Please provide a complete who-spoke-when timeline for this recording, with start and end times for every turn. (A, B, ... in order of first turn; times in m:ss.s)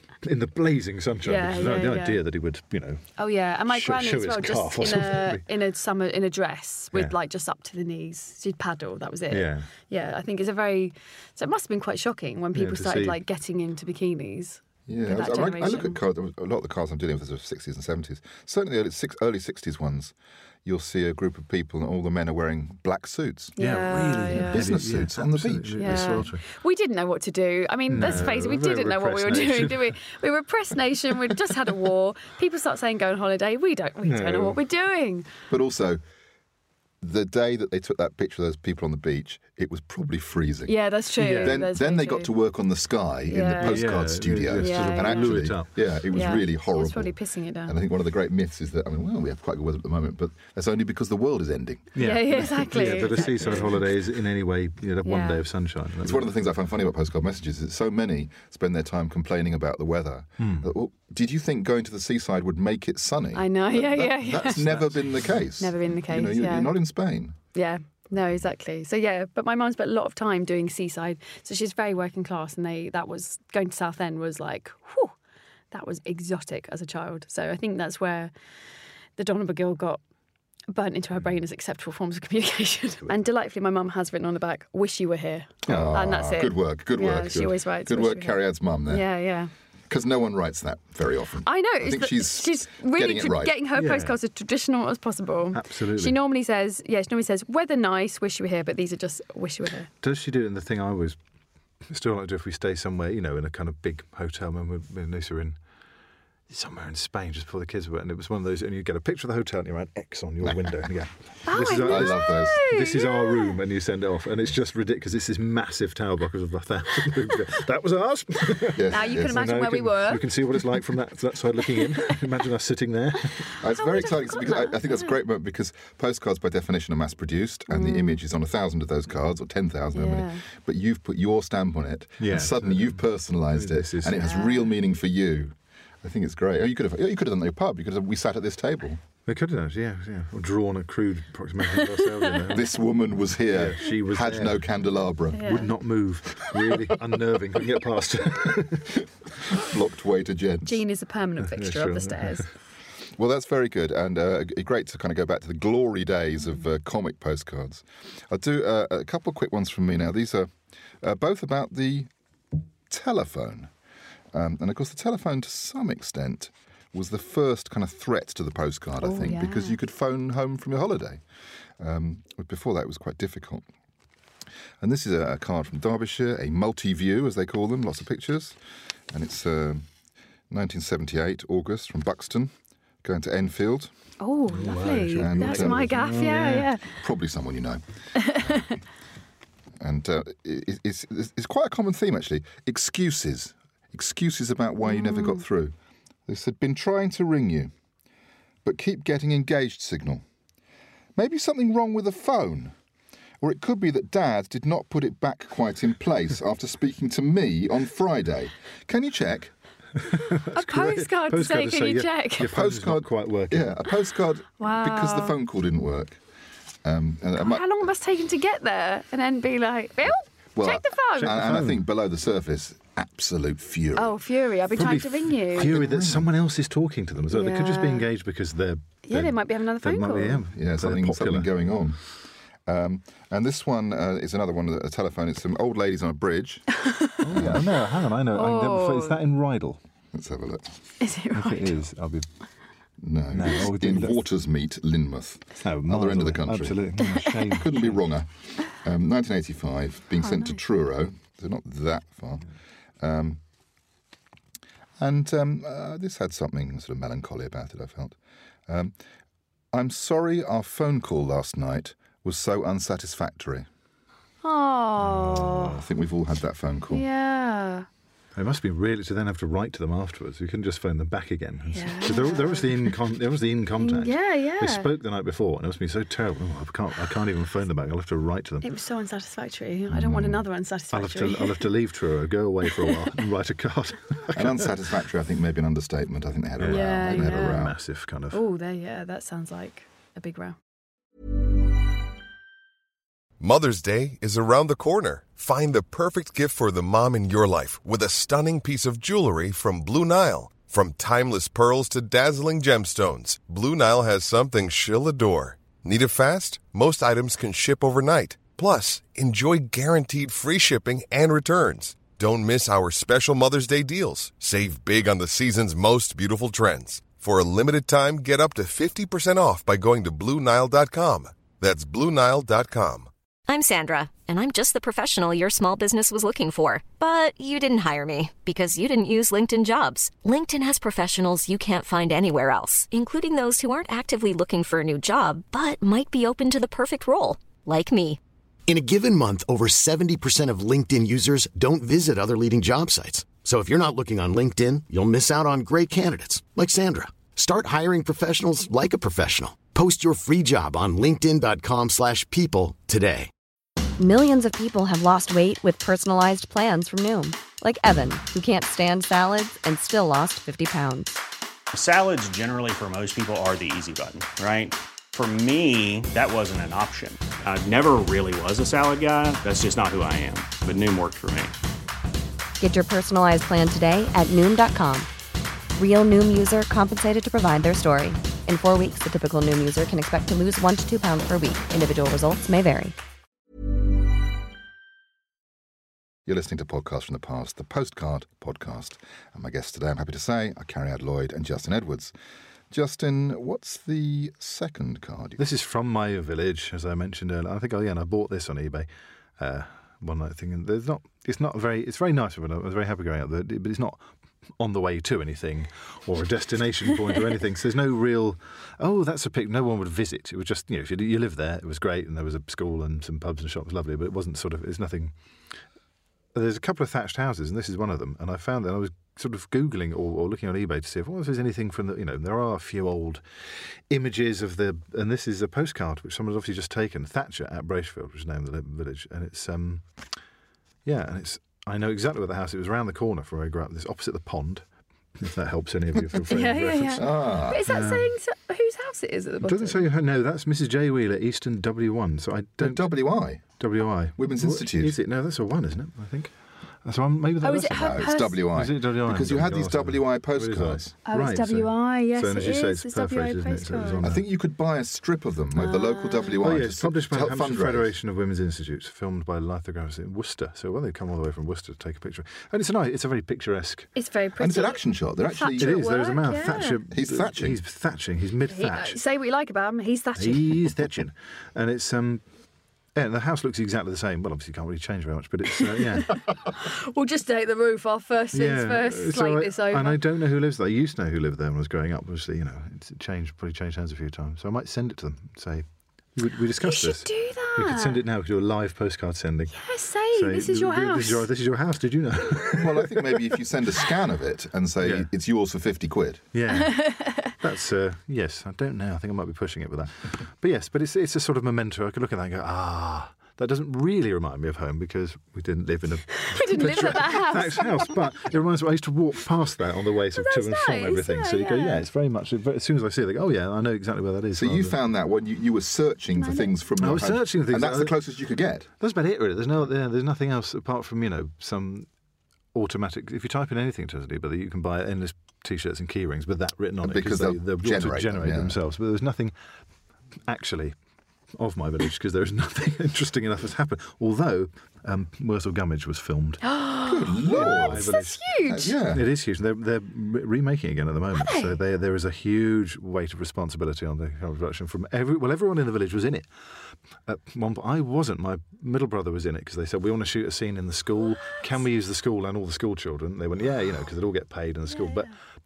0:00.2-0:03.1 A
0:01.2-0:02.2 B
0:03.2-0:16.0 B
0:03.7-0:05.4 A
0:09.3-0:09.7 A
0:12.5-0:13.2 A
0:14.9-0:20.1 C
0:20.6-0:23.6 C
0:23.6-0:24.7 B
0:23.6-0:26.4 A
0:24.3-0:26.3 C
0:25.8-0:35.3 B
0:27.9-0:30.0 A
0:27.9-0:28.3 C
0:34.0-0:34.6 A
0:35.5-0:36.0 C
0:37.0-0:40.8 C
0:40.7-0:42.3 B
0:41.2-0:41.6 A
0:41.3-0:47.2 C
0:43.3-0:43.9 B
0:43.6-0:45.7 A
0:44.5-0:45.4 B
0:46.1-0:47.8 B
0:47.7-0:53.6 C
0:52.0-0:56.4 A
0:52.0-0:53.8 B
0:55.0-0:55.4 B
0:56.0-1:07.4 C
1:00.4-1:00.7 A
1:03.3-1:04.7 B
1:04.4-1:05.3 A
1:05.6-1:06.7 B
1:07.5-1:15.1 B
1:15.7-1:18.3 B
1:19.2-1:20.0 B
1:20.7-1:29.5 B
1:25.7-1:26.1 A
1:25.7-1:29.1 C
1:29.9-1:33.5 C
1:31.4-1:39.9 B
1:33.8-1:34.2 A
1:35.5-1:36.2 A
1:40.0-1:41.2 A
1:41.9-1:45.6 A
1:46.5-2:03.5 A
1:51.5-1:53.6 B
1:51.8-1:52.6 C
1:58.8-1:59.4 C
1:58.9-2:00.3 B
2:03.4-2:05.2 B
2:03.6-2:19.0 C
2:07.7-2:08.2 B
2:09.9-2:10.4 B
2:12.2-2:14.3 A
2:14.2-2:14.7 B
2:19.3-2:22.8 A
2:21.7-2:22.5 B
2:22.5-2:25.5 C
2:23.5-2:24.8 A
2:25.3-2:25.7 B
2:25.4-2:29.0 A
2:29.5-2:30.8 C
2:30.6-2:32.5 B
2:31.4-2:32.5 A
2:33.2-2:42.1 C
2:42.9-2:43.7 C
2:44.3-2:51.2 C
2:49.0-2:49.8 B
2:51.8-2:53.7 C
2:54.8-2:58.6 C
2:59.1-2:59.8 C
3:00.5-3:02.5 C
3:03.0-3:03.9 C
3:04.2-3:06.8 B
3:04.5-3:06.7 A
3:05.2-3:05.9 C
3:07.0-3:08.7 C
3:08.2-3:08.8 B
3:09.8-3:15.7 C
3:14.8-3:15.4 B
3:16.3-3:17.7 C
3:18.6-3:20.2 C
3:21.2-3:22.7 C
3:23.4-3:29.5 C
3:30.0-3:33.8 A
3:30.5-3:32.5 B
3:32.5-3:36.2 C
3:34.6-3:35.4 B
3:36.8-3:37.7 C
3:37.4-3:41.3 B
3:40.6-3:44.2 C
3:41.2-3:41.9 A
3:44.0-3:45.8 B
3:44.8-3:51.5 A
3:45.6-3:46.3 C
3:47.3-3:48.1 B
3:49.0-3:50.4 B
3:50.6-3:52.0 C
3:52.7-3:56.8 C
3:56.8-3:57.2 B
3:57.2-3:59.8 A
3:57.3-3:57.6 C
3:58.3-3:59.2 B
4:00.1-4:00.6 C
4:01.0-4:01.8 B
4:01.3-4:02.3 A
4:03.0-4:06.8 C
4:03.3-4:04.2 A
4:05.6-4:08.0 A
4:07.5-4:12.4 C
4:10.2-4:10.6 B
4:13.0-4:13.4 C
4:15.0-4:18.2 C
4:18.7-4:18.9 C
4:19.7-4:23.7 C
4:24.4-4:25.8 B
4:25.0-4:25.7 A
4:25.5-4:27.0 C
4:26.9-4:27.9 B
4:28.4-4:38.7 A
4:31.7-4:32.7 B
4:33.8-4:34.9 B
4:38.6-4:41.7 B
4:39.9-4:44.8 A
4:44.3-4:47.8 C
4:46.6-4:48.4 A
4:46.7-4:47.7 B
4:48.3-4:50.6 B
4:53.4-5:23.1 D
5:23.5-5:38.2 E
5:38.7-5:53.3 F
5:54.0-6:01.2 G
6:01.7-6:11.5 H
6:12.6-6:15.1 G
6:15.8-6:23.0 G
6:26.3-6:32.1 C
6:32.7-6:35.4 C
6:35.4-6:38.9 A
6:39.4-6:44.0 A
6:44.6-6:55.1 A
6:56.3-7:03.2 A
7:03.9-7:09.8 A
7:10.8-7:14.6 A
7:15.2-7:18.1 A
7:16.3-7:19.8 B
7:17.0-7:17.6 C
7:19.4-7:26.3 A
7:22.6-7:23.6 C
7:24.2-7:24.9 C
7:26.8-7:34.2 A
7:27.4-7:28.4 B
7:27.7-7:30.9 C
7:31.1-7:34.1 B
7:34.0-7:37.9 C
7:35.6-7:36.4 B
7:36.4-7:43.9 A
7:44.0-7:46.8 B
7:44.4-7:45.7 C
7:45.6-7:49.0 A
7:46.9-7:47.6 C
7:48.5-7:50.6 B
7:50.2-7:52.2 A
7:53.0-7:56.2 A
7:56.1-8:00.0 B
7:58.3-8:05.6 A
8:06.2-8:13.3 A
8:06.6-8:08.0 B
8:09.6-8:11.2 B
8:12.4-8:16.3 C
8:14.8-8:15.1 A
8:16.3-8:34.8 A
8:16.5-8:17.3 B
8:26.1-8:27.9 B
8:30.2-8:31.8 B
8:34.4-8:38.7 C
8:36.2-8:36.5 B
8:36.8-8:38.0 A
8:38.8-8:41.9 A
8:42.5-8:49.3 A
8:46.8-8:48.6 C
8:50.3-8:50.7 A
8:51.4-8:56.4 A
8:56.4-8:58.8 B
8:56.8-8:57.9 C
8:57.3-8:58.2 A
8:58.5-8:59.0 C
8:58.9-9:06.3 A
9:01.2-9:01.5 B
9:07.1-9:15.1 A
9:14.7-9:15.1 B